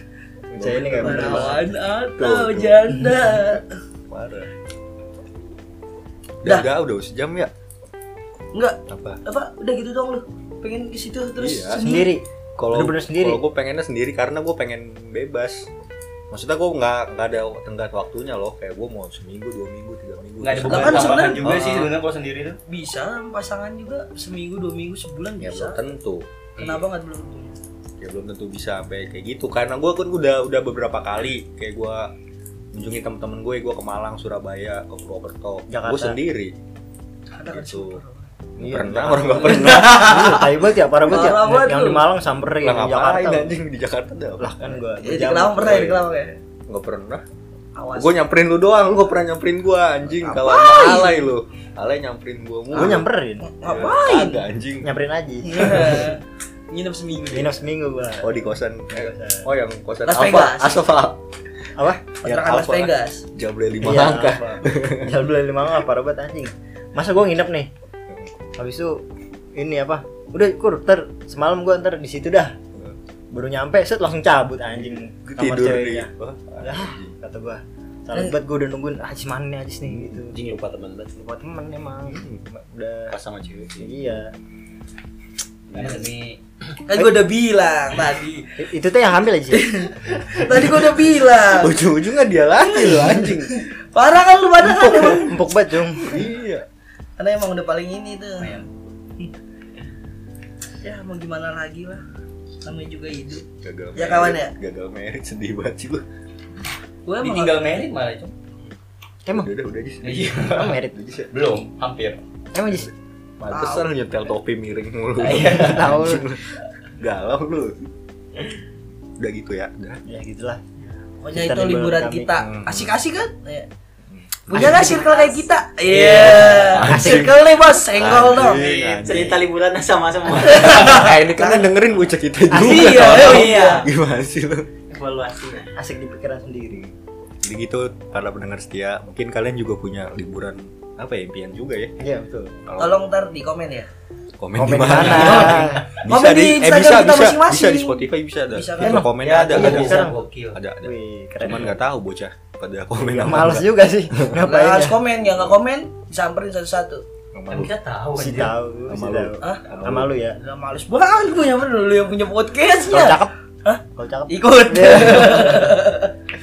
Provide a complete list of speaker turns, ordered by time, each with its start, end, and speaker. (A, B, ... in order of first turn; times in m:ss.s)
0:00.5-0:02.9 A
0:00.6-0:01.6 B
0:00.9-0:03.6 C
0:04.1-0:04.5 A
0:06.4-0:07.5 A
0:08.5-0:12.2 C
0:08.9-0:09.2 A
0:11.4-0:11.8 A
0:11.8-0:13.4 B
0:12.6-0:15.7 A
0:16.3-0:21.9 A
0:20.4-0:22.6 D
0:20.6-0:21.5 C
0:22.7-0:25.9 C
0:25.4-0:26.2 A
0:26.6-0:27.6 C
0:28.0-0:32.1 A
0:32.7-0:36.5 A
0:35.7-0:36.2 B
0:37.3-0:38.3 C
0:37.4-0:38.0 A
0:38.6-0:40.4 A
0:38.6-0:43.6 B
0:39.5-0:40.1 C
0:41.1-0:42.0 C
0:42.6-0:44.7 A
0:44.4-0:46.0 B
0:45.0-0:46.4 C
0:45.6-0:46.0 A
0:46.5-0:47.2 A
0:47.7-0:48.2 C
0:47.9-0:53.0 A
0:50.2-0:51.3 C
0:52.7-0:53.8 B
0:52.7-0:54.4 C
0:53.6-0:54.9 A
0:54.8-0:56.1 B
0:55.4-0:57.5 C
0:57.3-0:58.4 B
0:58.2-1:01.2 A
0:58.9-0:59.5 B
1:00.0-1:00.8 C
1:01.8-1:02.1 B
1:02.2-1:03.2 C
1:02.2-1:05.1 A
1:03.8-1:07.7 B
1:08.6-1:09.0 B
1:09.5-1:12.5 B
1:13.3-1:20.3 B
1:14.9-1:17.2 A
1:20.3-1:21.2 E
1:21.2-1:23.1 B
1:22.0-1:22.4 A
1:23.1-1:23.9 E
1:23.8-1:24.3 B
1:25.7-1:26.1 E
1:25.7-1:26.4 D
1:26.9-1:28.6 C
1:28.6-1:29.7 B
1:29.5-1:31.8 C
1:30.5-1:30.9 A
1:31.6-1:33.6 A
1:32.7-1:35.3 C
1:34.6-1:35.3 A
1:35.0-1:36.3 B
1:36.0-1:36.6 A
1:37.2-1:38.6 C
1:40.8-1:42.0 C
1:42.6-1:44.5 C
1:43.6-1:46.0 A
1:47.0-1:47.5 C
1:47.2-1:48.3 D
1:49.3-1:51.3 A
1:50.0-1:50.8 D
1:50.4-1:51.0 B
1:51.3-1:52.2 D
1:52.5-1:52.9 B
1:52.8-1:57.8 A
1:53.5-1:53.9 C
1:55.2-1:56.0 D
1:55.4-1:56.4 B
1:59.2-2:00.0 A
2:00.0-2:00.6 B
2:01.2-2:03.7 C
2:01.3-2:02.4 B
2:02.4-2:02.9 A
2:04.1-2:05.0 A
2:04.5-2:08.8 C
2:04.5-2:05.1 B
2:05.9-2:07.4 A
2:05.9-2:06.5 E
2:06.2-2:07.3 B
2:07.9-2:09.4 A
2:08.6-2:11.0 E
2:10.4-2:11.7 C
2:10.7-2:14.7 A
2:12.5-2:13.9 C
2:12.5-2:13.0 B
2:13.0-2:13.9 E
2:14.9-2:15.7 E
2:15.8-2:16.8 B
2:17.4-2:21.9 A
2:22.0-2:22.5 B
2:22.7-2:23.1 A
2:22.8-2:23.9 C
2:24.4-2:30.0 A
2:24.6-2:25.9 B
2:25.0-2:29.0 C
2:28.8-2:30.2 B
2:28.9-2:30.6 D
2:30.5-2:34.4 A
2:30.8-2:31.7 B
2:32.9-2:35.0 B
2:34.4-2:37.0 C
2:37.3-2:37.7 A
2:37.5-2:38.6 D
2:38.1-2:40.4 B
2:38.9-2:40.1 A
2:39.4-2:39.6 C
2:40.3-2:46.1 C
2:42.9-2:43.3 B
2:44.0-2:45.7 B